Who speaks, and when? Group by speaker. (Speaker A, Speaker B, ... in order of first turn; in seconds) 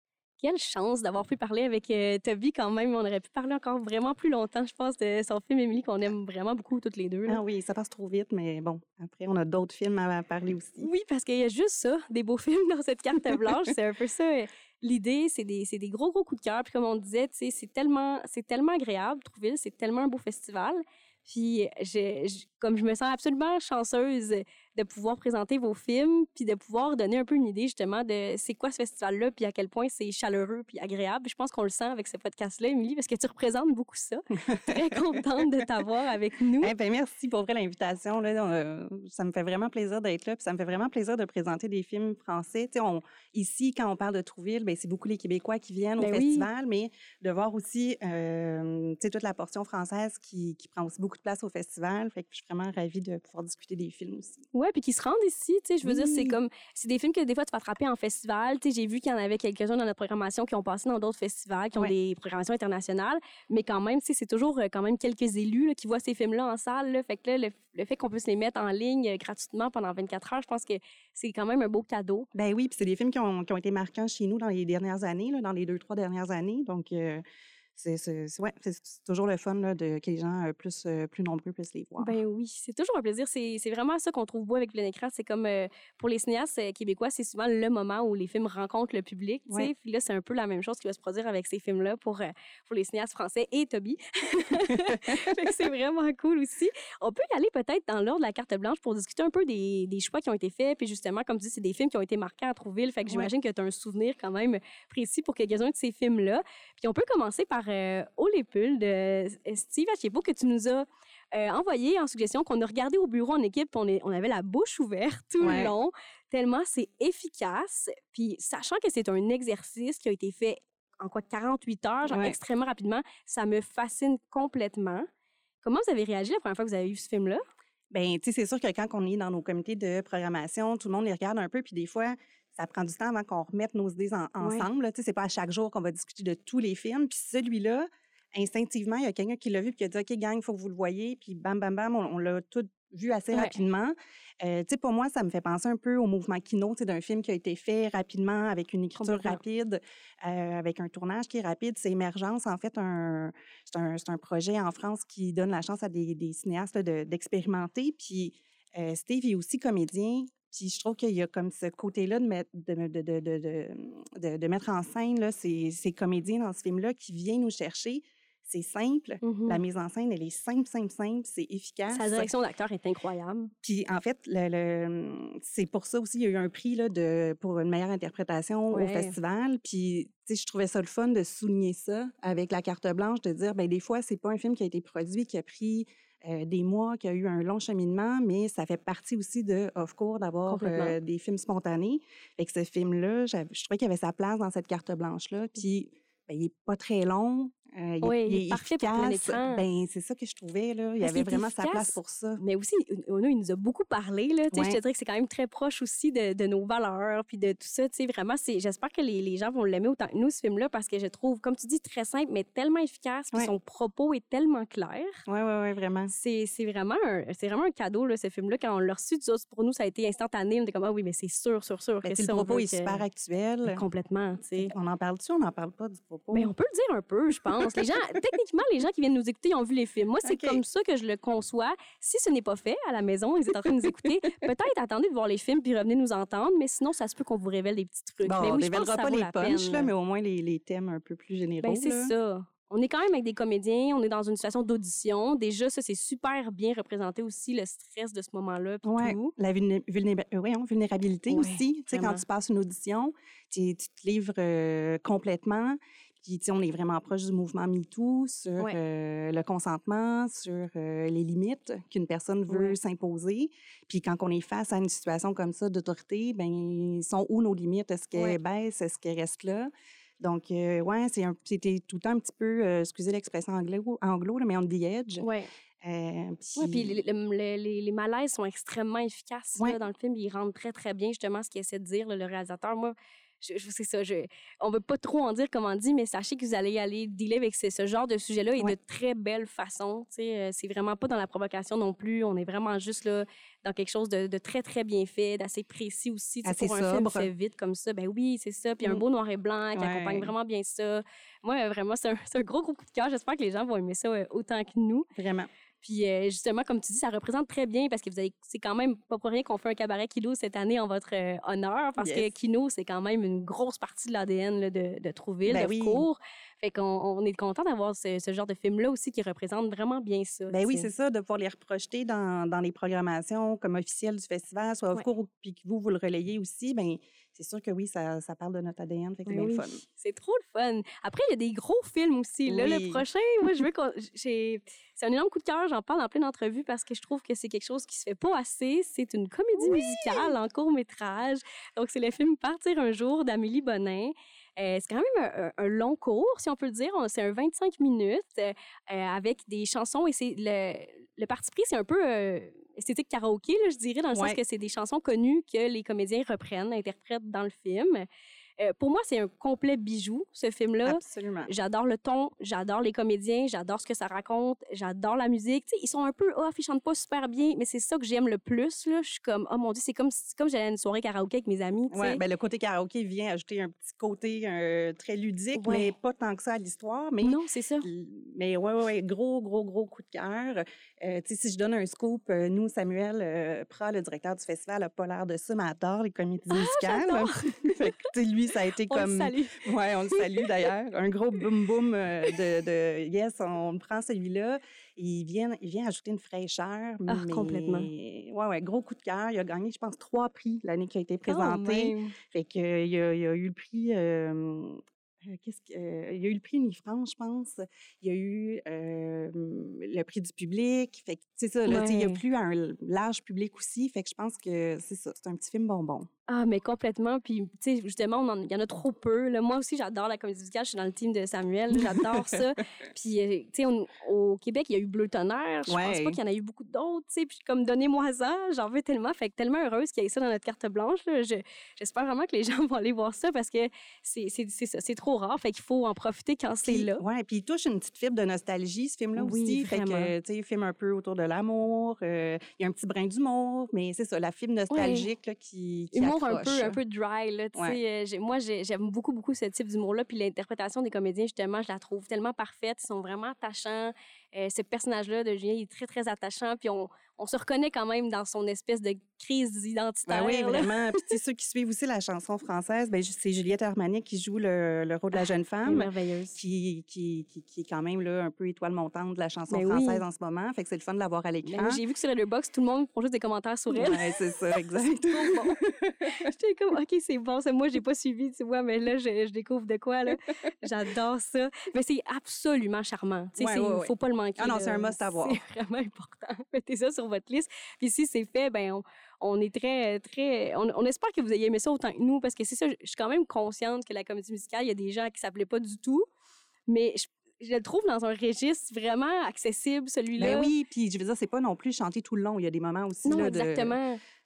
Speaker A: 0.4-7.4, 10.8-36.7, 46.0-46.5, 54.5-72.3, 82.0-125.1, 125.6-127.4, 134.4-134.7, 148.9-149.4, 169.2-169.6, 171.9-173.5, 178.7-179.1, 190.5-191.0, 198.0-199.6, 201.0-215.2, 216.1-223.0, 223.7-224.7, 226.3-239.9, 241.6-249.3, 251.3-252.2, 262.5-262.7, 275.2-275.5, 276.6-305.1, 305.8-320.9, 329.2-358.1, 358.6-372.2, 375.5-375.9, 377.2-377.9, 386.5-388.1, 388.8-390.5, 397.1-397.9, 401.2-402.1, 411.7-412.2, 416.3-437.0, 439.1-440.1, 444.7-445.1, 445.9-461.1, 465.1-466.4, 469.5-470.0, 471.4-496.1, 496.7-500.5, 503.0-504.0
Speaker B: 7.3-10.9, 13.3-13.5, 34.5-35.6, 36.6-54.4, 55.8-56.4, 72.3-77.2, 77.8-82.2, 94.9-95.2, 115.4-115.7, 122.1-122.3, 127.9-172.3, 173.6-202.4, 204.5-204.8, 215.3-216.1, 222.0-223.8, 224.6-226.5, 227.6-228.0, 230.2-230.6, 233.6-234.3, 238.2-242.1, 248.8-275.2, 275.8-277.0, 296.4-297.3, 299.7-300.3, 305.1-305.5, 312.0-312.3, 315.4-316.1, 320.5-329.8, 332.5-333.0, 339.6-340.3, 354.1-354.4, 360.8-361.5, 371.9-416.1, 421.7-422.4, 425.7-426.2, 436.6-446.8, 460.1-471.8, 473.7-476.2, 483.4-485.4, 500.2-503.8